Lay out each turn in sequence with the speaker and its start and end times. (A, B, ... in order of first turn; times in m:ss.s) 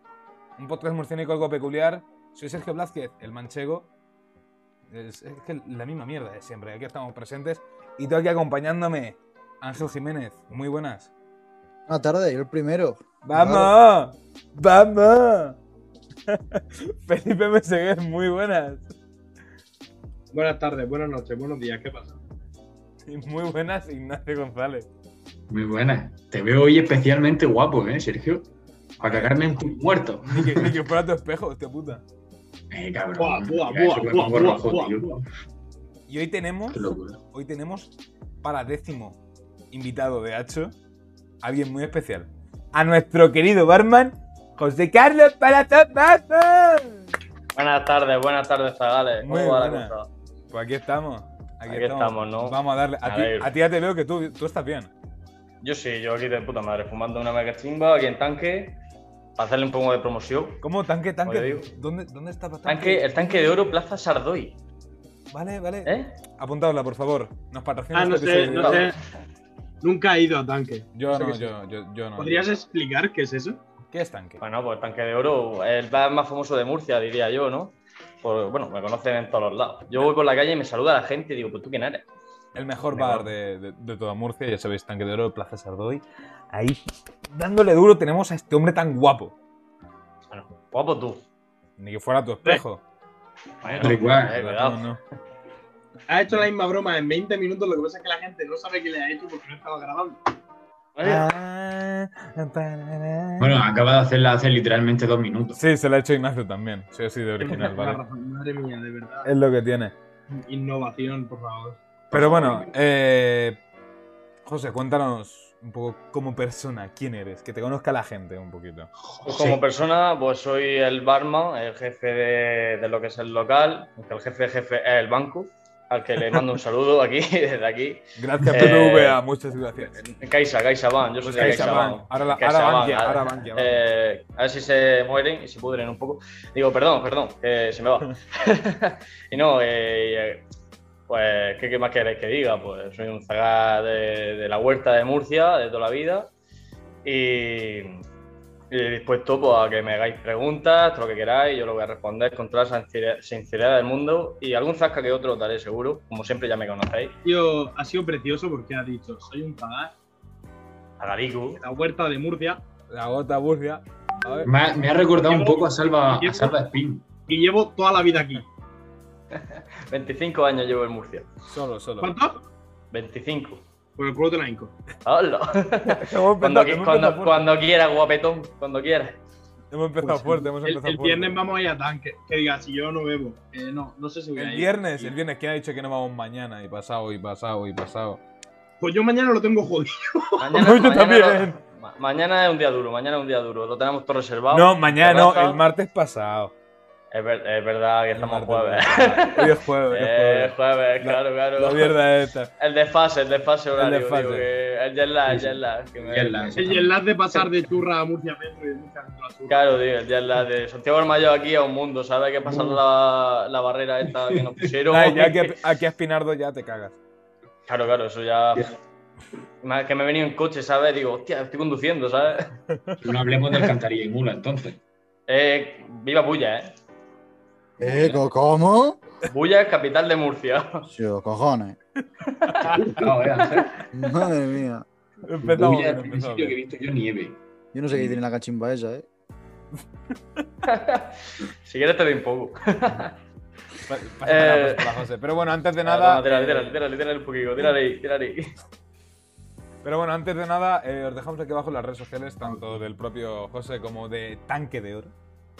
0:00.6-0:03.9 A
0:04.9-0:11.1 A
0:11.9-0:13.7 B
0:13.2-0:15.6 A
0:16.3-0:18.9 A
0:20.3-0:22.2 C
0:23.0-0:24.9 A
0:25.5-0:30.7 D
0:29.0-0:29.4 A
0:30.2-0:32.0 A
0:32.7-0:35.3 D
0:33.2-0:35.1 C
0:36.1-0:37.9 A
0:36.7-0:37.2 D
0:38.4-0:39.2 A
0:39.7-0:40.7 A
0:41.4-0:47.1 A
0:47.6-0:50.1 E
0:49.2-0:49.9 A
0:50.5-0:54.9 A
0:51.7-0:53.5 E
0:55.6-0:58.8 E
0:59.4-1:00.6 E
1:00.6-1:03.6 A
1:01.2-1:01.7 E
1:02.7-1:04.6 E
1:05.3-1:08.9 A
1:05.8-1:06.1 E
1:07.9-1:09.0 C
1:08.5-1:08.9 E
1:09.8-1:11.5 C
1:10.9-1:12.4 A
1:12.2-1:13.6 C
1:13.9-1:14.4 A
1:14.4-1:22.0 E
1:22.6-1:26.8 A
1:22.9-1:23.3 E
1:27.3-1:29.4 A
1:30.3-1:31.2 E
1:31.8-1:32.8 A
1:33.6-1:35.0 E
1:33.8-1:34.4 D
1:33.8-1:35.0 A
1:36.1-1:40.2 C
1:41.0-1:41.2 E
1:41.0-1:43.6 A
1:43.4-1:45.6 D
1:45.6-1:48.0 A
1:47.4-1:49.3 C
1:49.2-1:49.9 A
1:50.3-1:51.8 C
1:52.1-1:52.8 D
1:52.1-1:53.6 A
1:54.4-1:58.9 A
1:59.0-1:59.6 D
1:59.2-2:09.2 E
2:08.2-2:10.0 A
2:09.8-2:20.4 E
2:11.2-2:13.8 A
2:21.1-2:26.3 E
2:27.0-2:28.0 E
2:28.7-2:37.2 E
2:37.2-2:39.9 C
2:41.0-2:41.6 E
2:41.6-2:42.6 C
2:42.9-2:44.5 A
2:44.4-2:47.1 D
2:45.2-2:46.6 C
2:47.3-2:48.4 C
2:49.3-2:51.3 E
2:51.5-2:52.1 A
2:52.0-2:52.4 C
2:52.9-2:53.6 E
2:54.0-2:54.7 C
2:55.0-2:59.2 E
2:55.8-2:57.5 A
2:59.7-3:01.4 A
3:00.0-3:05.1 C
3:04.4-3:08.2 A
3:08.8-3:10.7 C
3:10.4-3:15.6 E
3:10.6-3:11.6 A
3:14.5-3:16.5 A
3:17.1-3:21.9 E
3:18.2-3:22.5 A
3:22.6-3:26.6 E
3:23.8-3:24.5 A
3:25.3-3:27.0 D
3:26.6-3:29.6 C
3:29.5-3:35.5 E
3:34.1-3:34.6 D
3:34.9-3:37.0 A
3:37.7-3:38.8 E
3:39.6-3:42.6 E
3:43.0-3:44.8 D
3:45.3-3:46.7 E
3:47.8-3:49.0 B
3:47.8-3:48.2 E
3:49.3-3:50.9 E
3:50.8-3:51.8 B
3:52.2-3:52.7 E
3:52.6-3:53.8 D
3:53.4-3:53.7 E
3:53.9-3:54.8 B
3:55.2-3:56.5 A
3:55.4-3:57.4 D
3:57.7-3:59.1 B
3:57.9-3:58.2 D
4:00.6-4:03.1 E
4:03.8-4:06.8 A
4:04.2-4:04.9 E
4:05.8-4:08.5 E
4:09.8-4:15.1 A